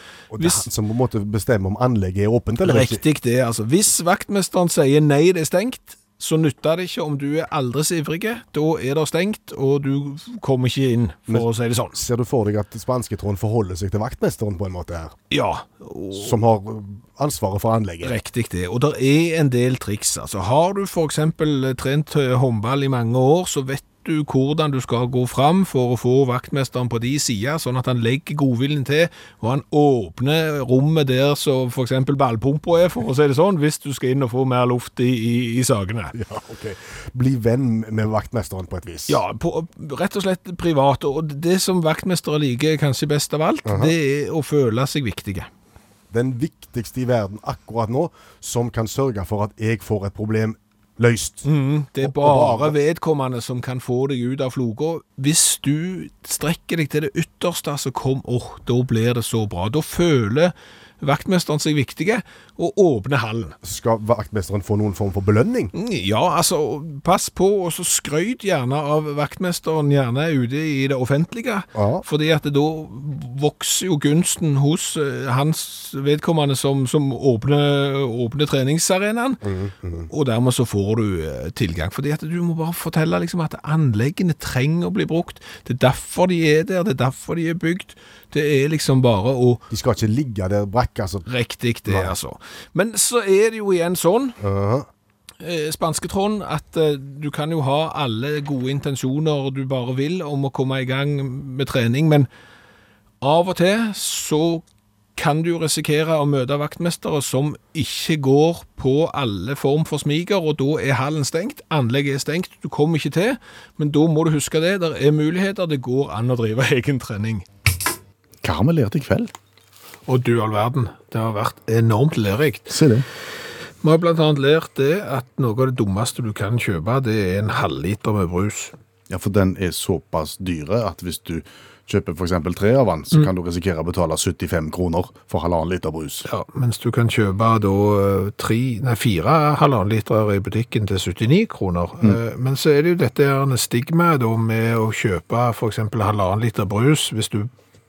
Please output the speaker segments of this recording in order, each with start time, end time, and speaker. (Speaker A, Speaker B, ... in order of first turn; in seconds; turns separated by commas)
Speaker A: 0.3-3.0, Speaker B: 0.3-0.7, Speaker B: 2.6-12.0, Speaker A: 11.3-15.1, Speaker B: 15.3-16.3, Speaker A: 16.1-18.2, Speaker B: 18.0-36.1, Speaker A: 36.1-39.2, Speaker B: 39.1-45.5, Speaker A: 43.6-43.9, Speaker A: 46.1-51.5, Speaker B: 51.4-63.6, Speaker A: 52.0-52.8, Speaker A: 63.6-65.7, Speaker B: 65.7-79.4, Speaker A: 71.7-72.0, Speaker A: 79.4-80.1, Speaker B: 80.1-89.6, Speaker A: 89.7-91.2, Speaker B: 91.3-94.4, Speaker A: 91.9-92.1, Speaker A: 94.4-94.9, Speaker B: 95.4-102.3, Speaker B: 103.2-104.6, Speaker B: 105.2-117.4, Speaker C: 118.4-119.3, Speaker B: 120.1-122.8, Speaker C: 122.7-123.0, Speaker B: 123.8-128.7, Speaker C: 129.1-136.3, Speaker B: 136.3-147.5